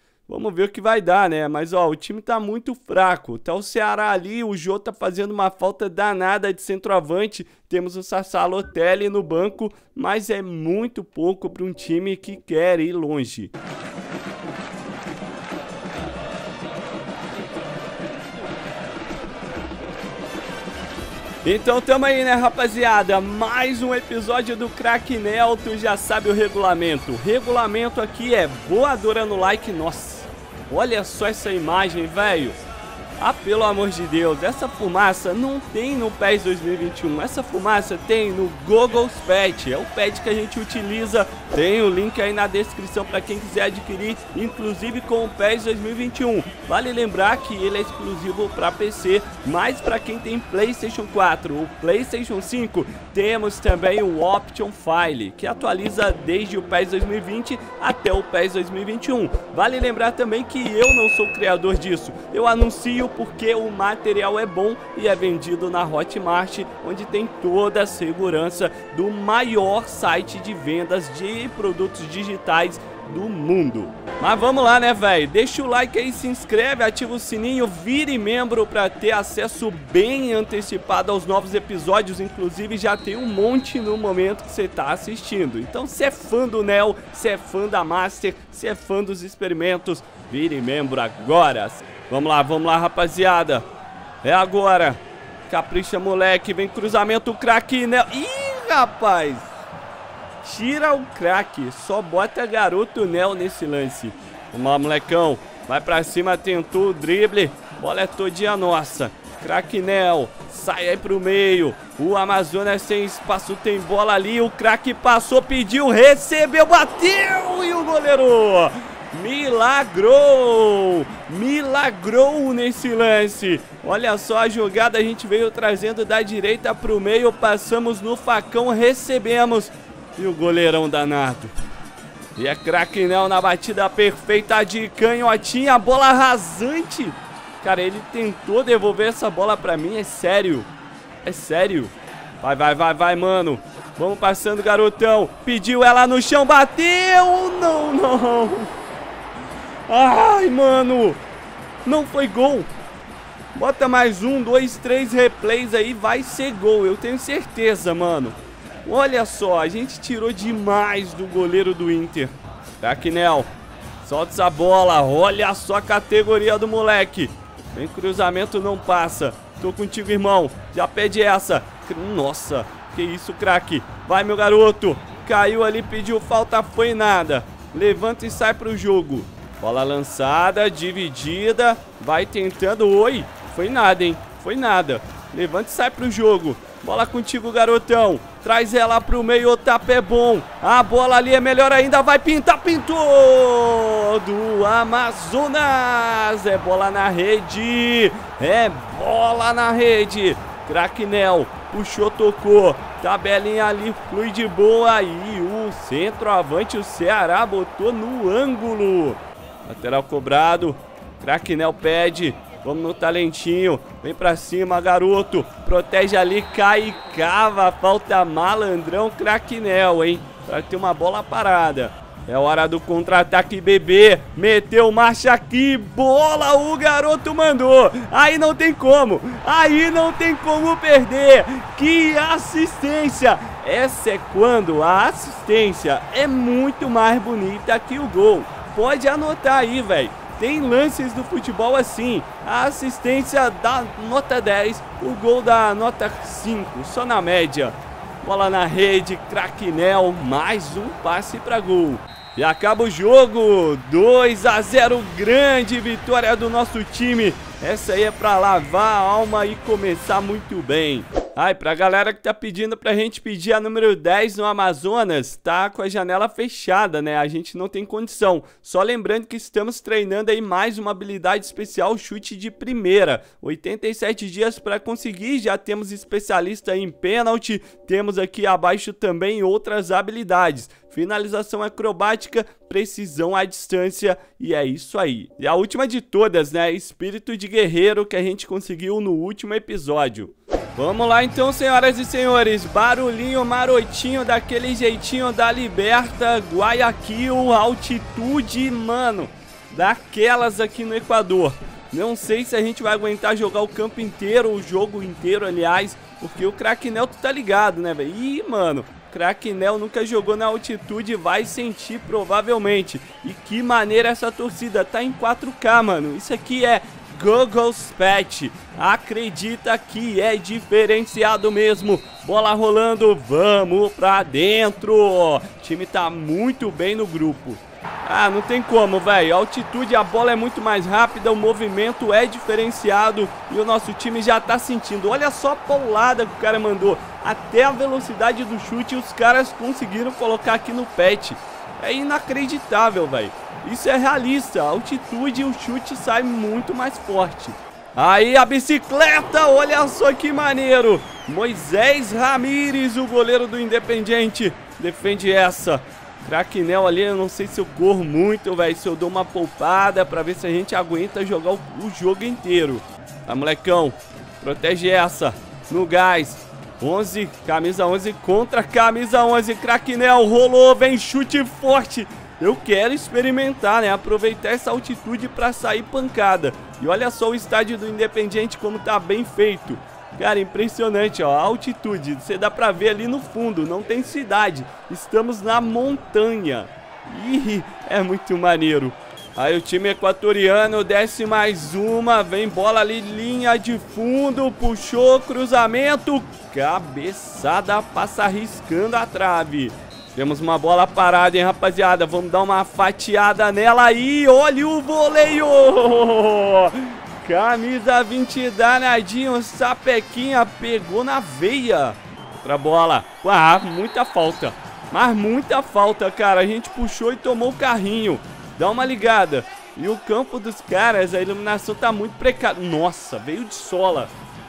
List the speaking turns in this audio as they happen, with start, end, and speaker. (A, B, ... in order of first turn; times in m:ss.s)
0:00.3-0:13.5 A
0:21.4-0:32.6 A
0:33.2-1:33.7 A
1:34.2-1:39.5 A
1:40.4-2:11.5 A
2:12.4-2:20.7 A
2:21.2-2:28.7 A
2:29.9-2:31.2 A
2:31.9-2:32.7 A
2:33.5-2:43.5 A
2:44.0-7:04.1 A